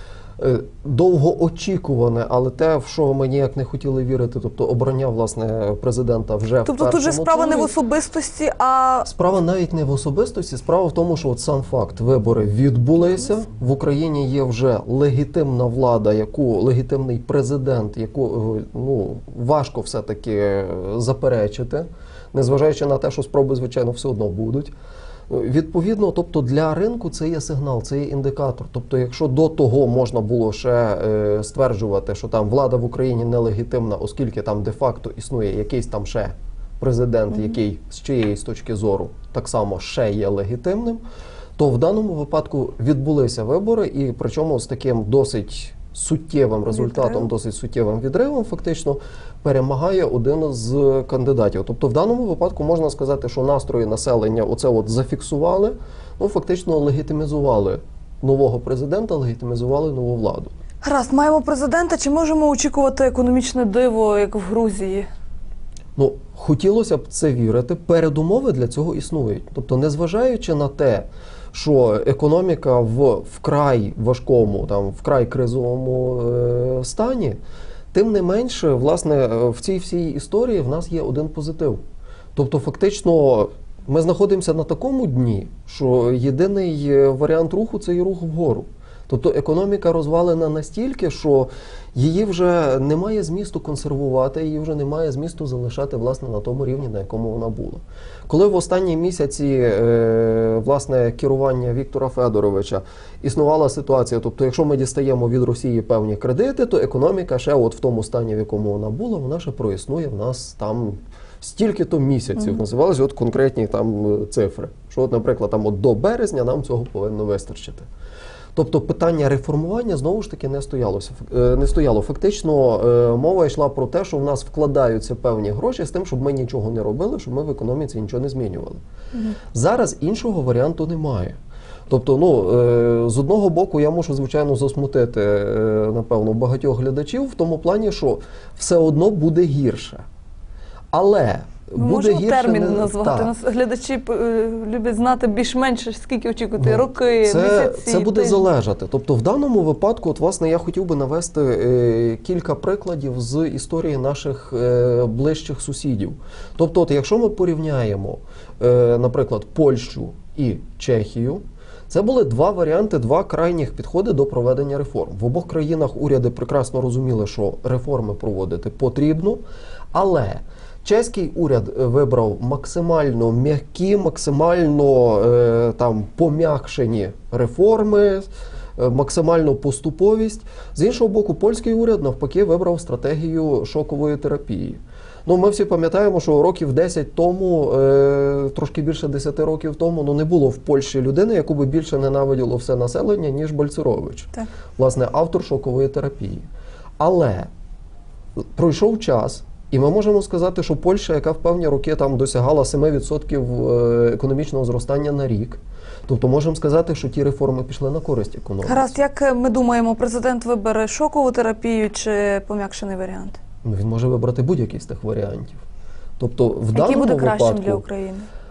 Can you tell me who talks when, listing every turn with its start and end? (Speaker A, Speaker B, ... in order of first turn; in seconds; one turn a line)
Speaker A: 0.4-7.7
Speaker B: 6.6-9.1
Speaker A: 9.1-24.7
Speaker A: 25.3-41.0
Speaker A: 41.6-60.5
Speaker B: 46.9-47.3
Speaker B: 60.8-65.1
Speaker A: 66.0-77.4
Speaker A: 77.9-81.8
Speaker A: 82.3-117.9
Speaker A: 118.5-128.8
Speaker A: 129.5-131.4
Speaker A: 131.9-140.0
Speaker A: 140.9-143.3
Speaker B: 141.8-148.4
Speaker A: 146.6-196.5
Speaker A: 197.0-197.5
Speaker A: 198.6-208.9
Speaker B: 208.6-213.4
Speaker A: 213.6-215.6
Speaker A: 216.2-217.8
Speaker B: 216.7-218.3